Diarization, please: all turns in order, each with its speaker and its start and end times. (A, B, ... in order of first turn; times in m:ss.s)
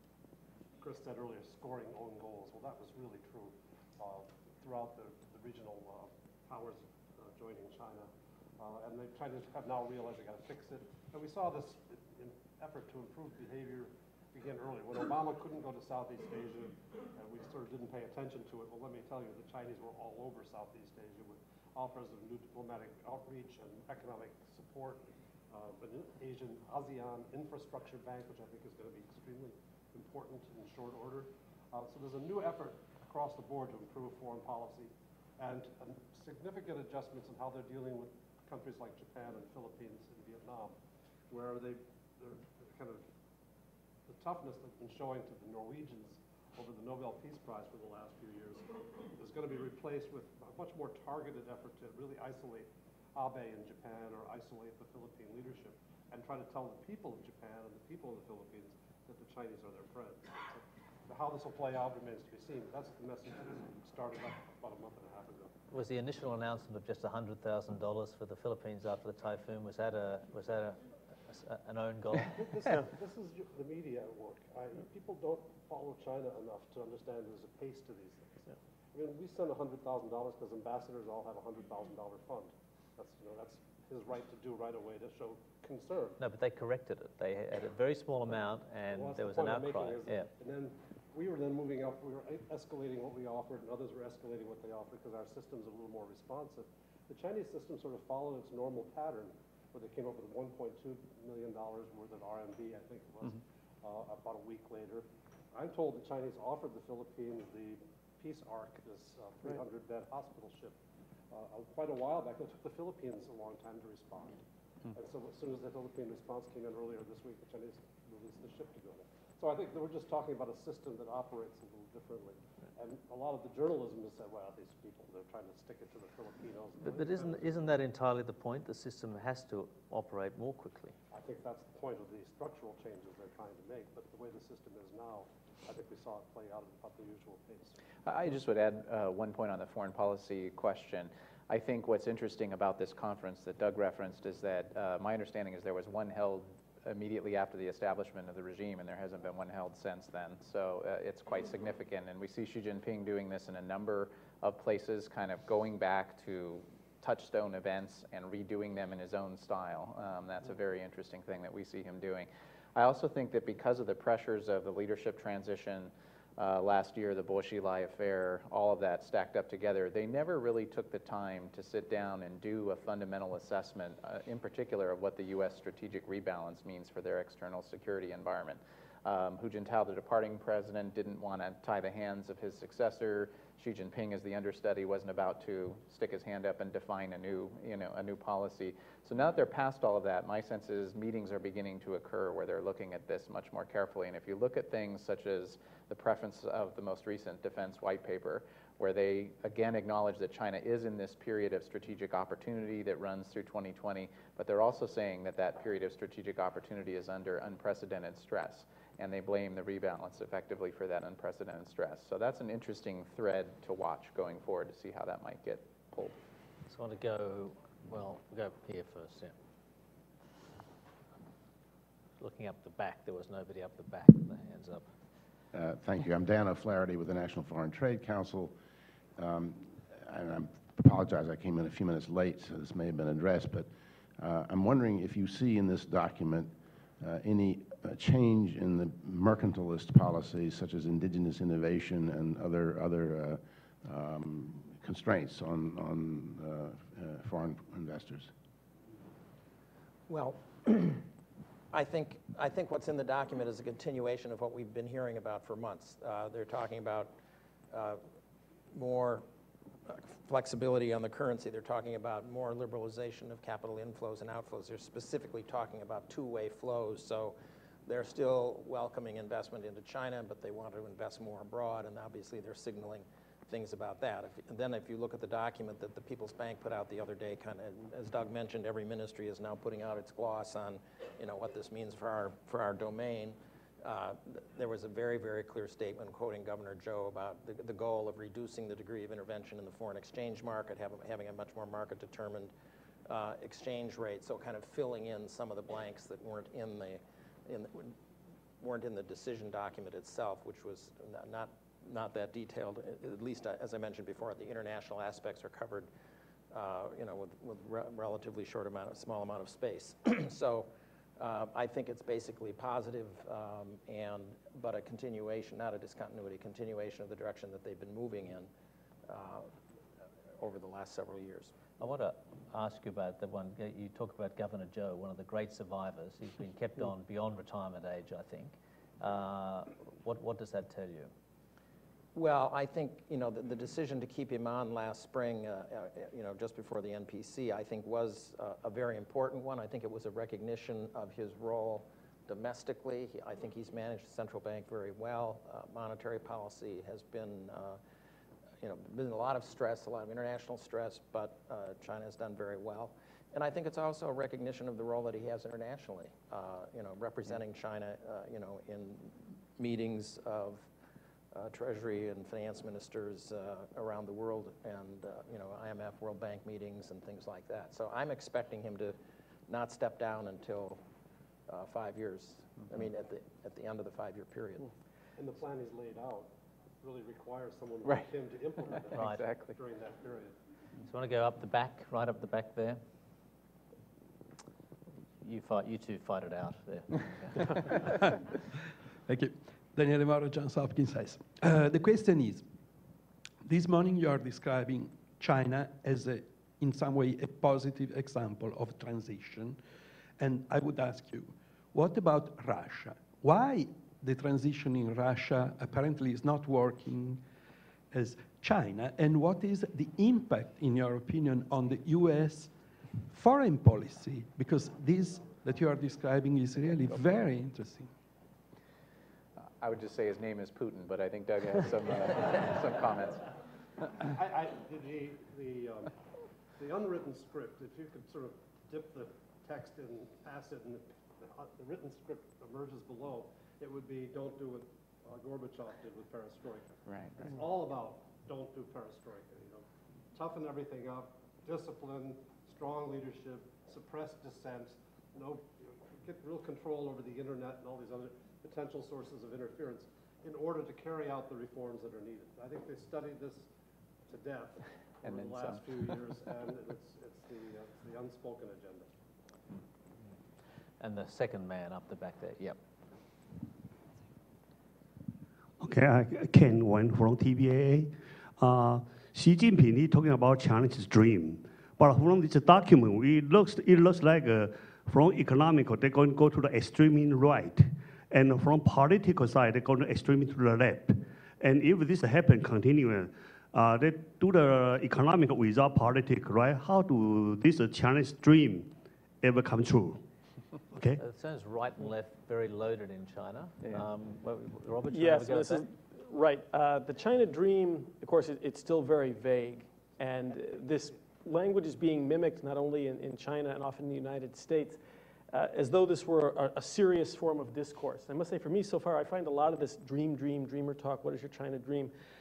0:00.8-0:08.1 A
0:08.6-0:40.8 A
0:41.3-0:43.0 A
0:44.1-1:05.5 A
1:05.7-1:12.3 B
1:12.3-1:26.2 A
1:26.2-1:30.3 B
1:28.9-1:50.8 A
1:51.3-1:54.4 A
1:54.9-2:07.7 A
2:06.8-2:10.9 B
2:11.1-2:17.8 A
2:18.0-3:36.2 C
3:36.7-3:39.3 B
3:42.2-3:44.9 B
3:45.5-3:48.6 D
3:49.2-4:08.3 D
4:10.1-4:11.0 E
4:11.7-4:17.1 E
4:17.7-4:18.0 E
4:18.7-4:19.2 E
4:19.8-4:52.5 E
4:53.0-4:58.0 E
4:58.6-5:05.9 E
5:06.5-5:18.5 E
5:19.1-5:19.5 E
5:20.4-5:21.5 E
5:21.8-5:31.1 B
5:32.1-5:47.8 E
5:48.6-6:00.7 E
6:01.3-6:09.0 E
6:09.5-6:10.8 E
6:11.5-6:14.7 E
6:15.2-6:16.3 A
6:16.8-6:20.3 A
6:18.9-6:19.5 C
6:18.9-6:19.2 B
6:20.9-6:22.8 B
6:25.2-6:27.8 B
6:29.1-6:32.4 F
6:33.4-6:39.6 F
6:40.2-6:47.2 F
6:47.9-6:52.5 F
6:53.1-6:57.9 F
6:59.6-7:03.2 C
7:04.0-7:06.0 A
7:06.5-7:33.5 A
7:16.8-7:17.4 C
7:34.1-7:38.9 A
7:35.0-7:35.6 C
7:40.8-7:42.6 B
7:45.6-8:08.7 G
8:09.2-8:10.0 G
8:10.7-8:11.0 G
8:10.9-8:15.6 B
8:14.9-8:24.8 H
8:25.3-8:31.9 H